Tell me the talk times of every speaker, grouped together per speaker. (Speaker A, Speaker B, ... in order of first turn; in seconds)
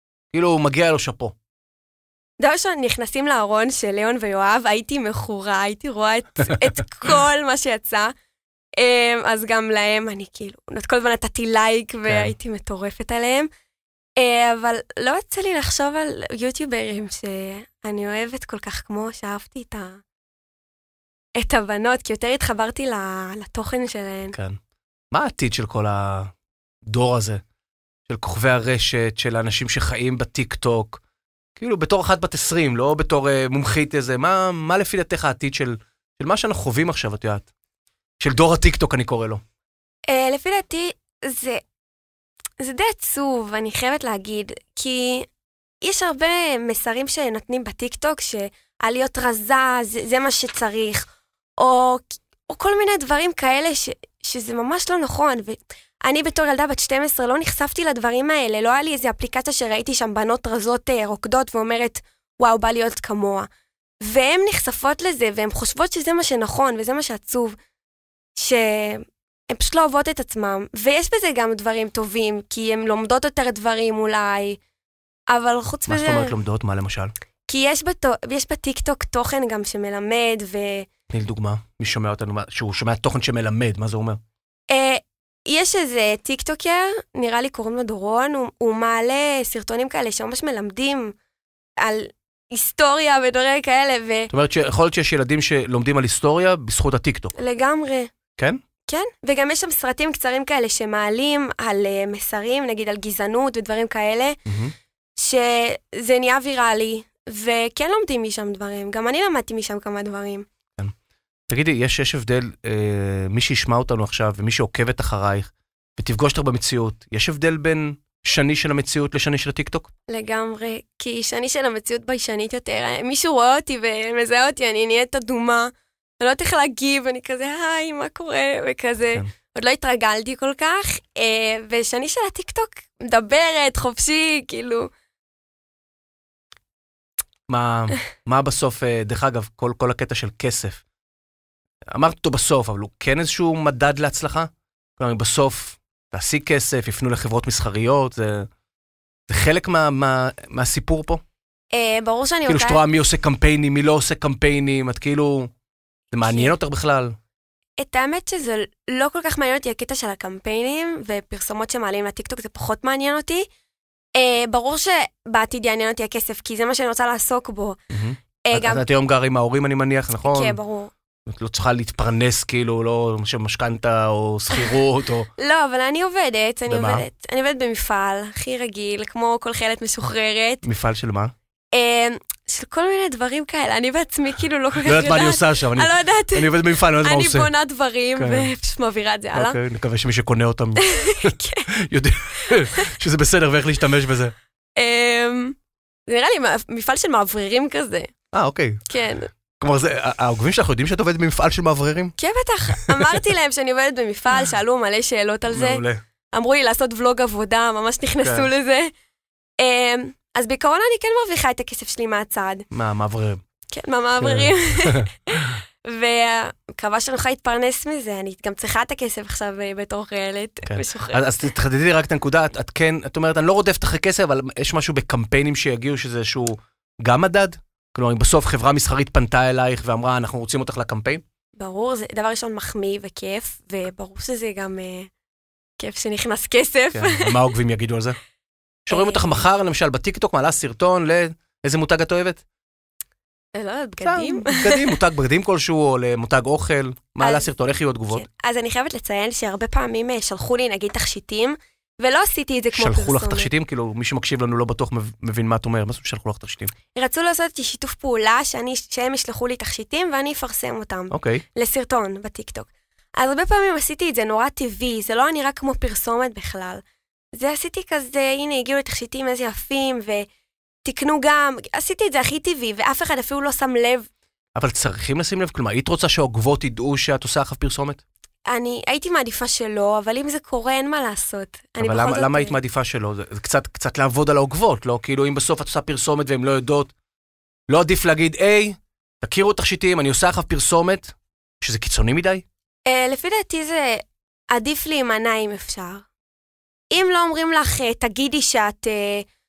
Speaker A: 0.3-1.3, 12.1-12.3, 24.3-24.6, 25.1-26.3, 26.9-27.4, 28.1-31.0, 31.6-37.5, 38.2-39.4, 75.9-77.1, 81.1-84.2, 94.3-97.3, 104.5-104.7, 111.5-119.9, 137.5-140.8, 141.9-148.5, 149.3-151.2, 152.5-155.5, 156.1-157.2, 167.9-170.6, 171.2-175.3, 176.7-177.0, 180.6-181.3, 184.8-187.5, 188.2-188.5, 189.3-194.3, 198.3-198.8, 199.6-202.1, 202.8-203.2, 205.5-206.0, 208.2-208.5, 212.7-213.4, 214.2-215.6, 220.6-231.2, 236.9-238.2, 238.9-242.4, 244.0-248.2, 252.7-256.7, 261.1-261.4, 274.5-278.0, 281.8-286.9, 287.7-292.4
Speaker B: 2.4-8.1, 8.8-13.5, 14.2-20.0, 21.4-24.4, 40.1-41.6, 42.6-45.3, 45.8-51.1, 51.6-63.5, 64.0-67.5, 68.3-74.6, 75.3-76.3, 77.5-80.9, 84.7-91.1, 91.8-94.3, 97.3-98.1, 98.9-104.4, 105.2-110.5, 120.1-134.9, 151.7-152.8, 156.2-156.5, 157.8-163.5, 164.1-167.8, 168.4-168.8, 170.2-170.9, 175.4-180.6, 181.7-189.6, 190.8-191.7, 192.4-192.8, 194.8-198.1, 198.9-199.3, 202.2-208.9, 209.6-212.7, 213.7-221.2, 231.6-235.1, 235.8-237.4, 238.9-239.4, 243.5-244.9, 247.2-247.5, 248.1-253.5, 256.9-266.8, 267.3-270.3, 270.8-274.1, 278.5-282.6, 292.9-296.0, 296.9-299.3